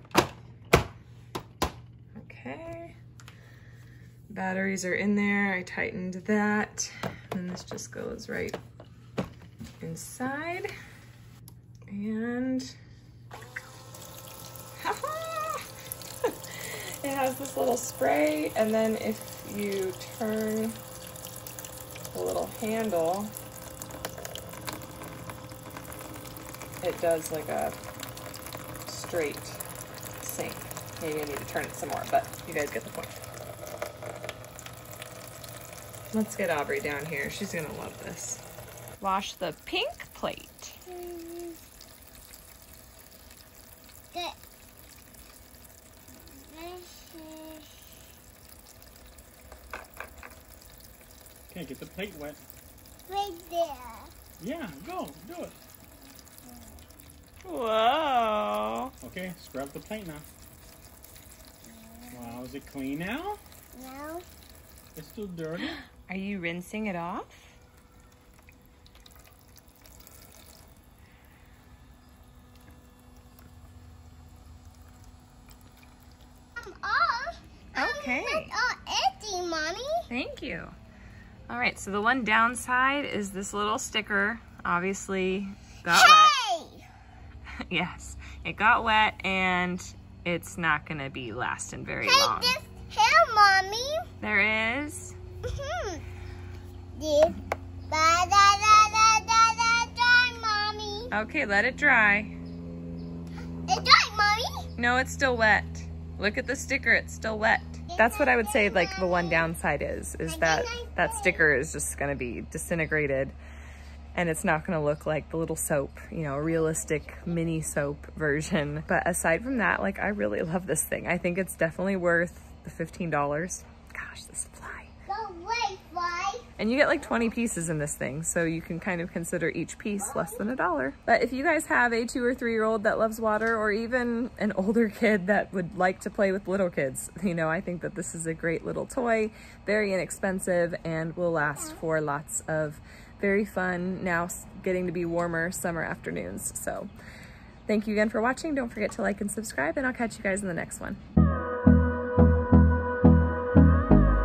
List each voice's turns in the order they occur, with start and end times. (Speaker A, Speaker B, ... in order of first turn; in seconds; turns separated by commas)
Speaker A: 2.1-3.0, Speaker A: 4.3-8.6, Speaker A: 9.8-10.7, Speaker A: 11.9-12.8, Speaker A: 14.8-15.7, Speaker A: 16.2-20.8, Speaker A: 22.1-23.3, Speaker A: 26.8-27.8, Speaker A: 28.9-29.6, Speaker A: 30.2-33.2, Speaker A: 36.1-38.4, Speaker A: 39.0-40.8, Speaker B: 40.9-41.6, Speaker B: 46.1-47.9, Speaker C: 51.5-52.4, Speaker B: 53.1-54.1, Speaker C: 54.4-55.6, Speaker A: 57.4-58.9, Speaker C: 59.0-60.3, Speaker C: 62.1-63.4, Speaker B: 63.7-64.2, Speaker C: 65.0-65.8, Speaker A: 66.1-67.5, Speaker B: 76.6-80.0, Speaker A: 77.8-78.5, Speaker A: 80.1-80.8, Speaker A: 81.5-86.4, Speaker B: 85.9-86.8, Speaker A: 87.7-92.6, Speaker B: 92.0-94.1, Speaker A: 94.2-95.2, Speaker B: 95.5-96.0, Speaker B: 97.0-97.4, Speaker B: 97.9-101.1, Speaker A: 101.1-102.4, Speaker B: 103.7-104.7, Speaker A: 104.8-113.4, Speaker B: 107.9-109.5, Speaker B: 110.3-111.5, Speaker A: 114.2-124.9, Speaker B: 125.1-126.5, Speaker A: 126.6-146.9, Speaker A: 147.7-151.0